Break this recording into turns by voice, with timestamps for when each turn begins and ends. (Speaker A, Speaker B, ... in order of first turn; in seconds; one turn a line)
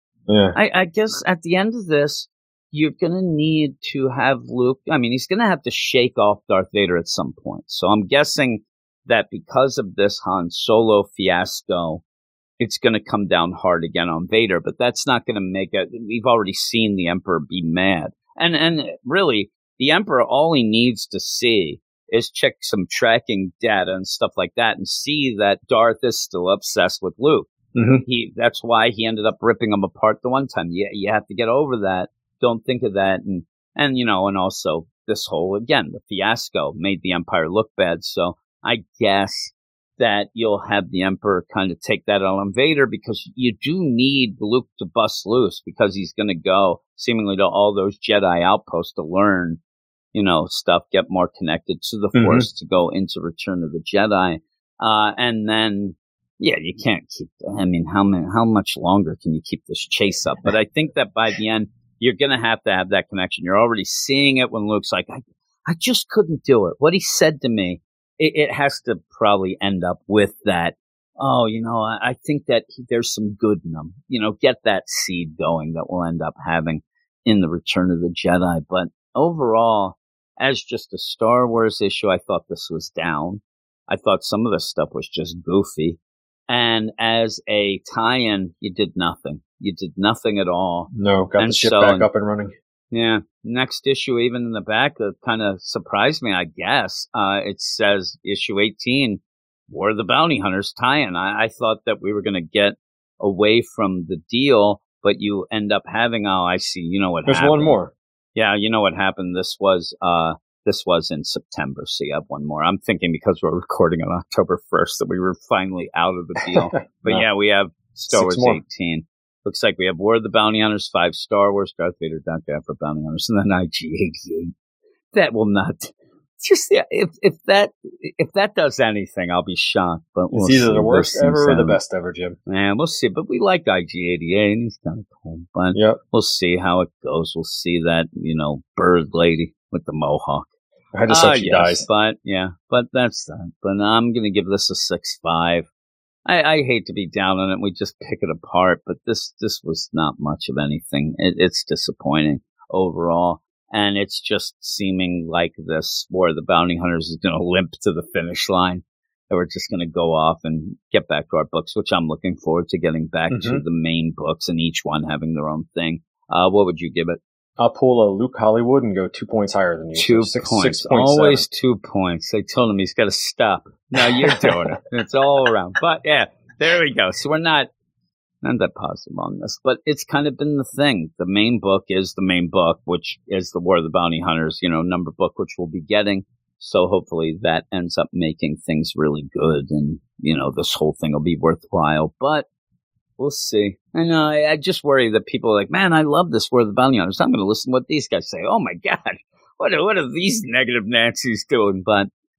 Speaker A: 0.3-0.6
Speaker B: 0.5-12.0
Speaker B: 12.6-27.5
Speaker A: 27.8-28.0
Speaker B: 28.0-49.6
Speaker B: 50.1-92.1
Speaker A: 52.1-52.5
Speaker A: 90.9-92.5
Speaker B: 92.9-107.8
Speaker A: 107.3-107.9
Speaker B: 108.3-124.5
Speaker A: 116.6-117.2
Speaker A: 118.1-118.6
Speaker B: 125.1-131.8
Speaker A: 130.3-132.4
Speaker B: 132.5-140.5
Speaker A: 135.7-136.0
Speaker A: 140.9-141.9
Speaker B: 141.1-145.7
Speaker B: 146.3-167.2
Speaker A: 163.3-163.6
Speaker A: 167.6-171.4
Speaker B: 170.0-177.7
Speaker A: 174.0-174.6
Speaker B: 178.4-192.5
Speaker B: 193.2-202.1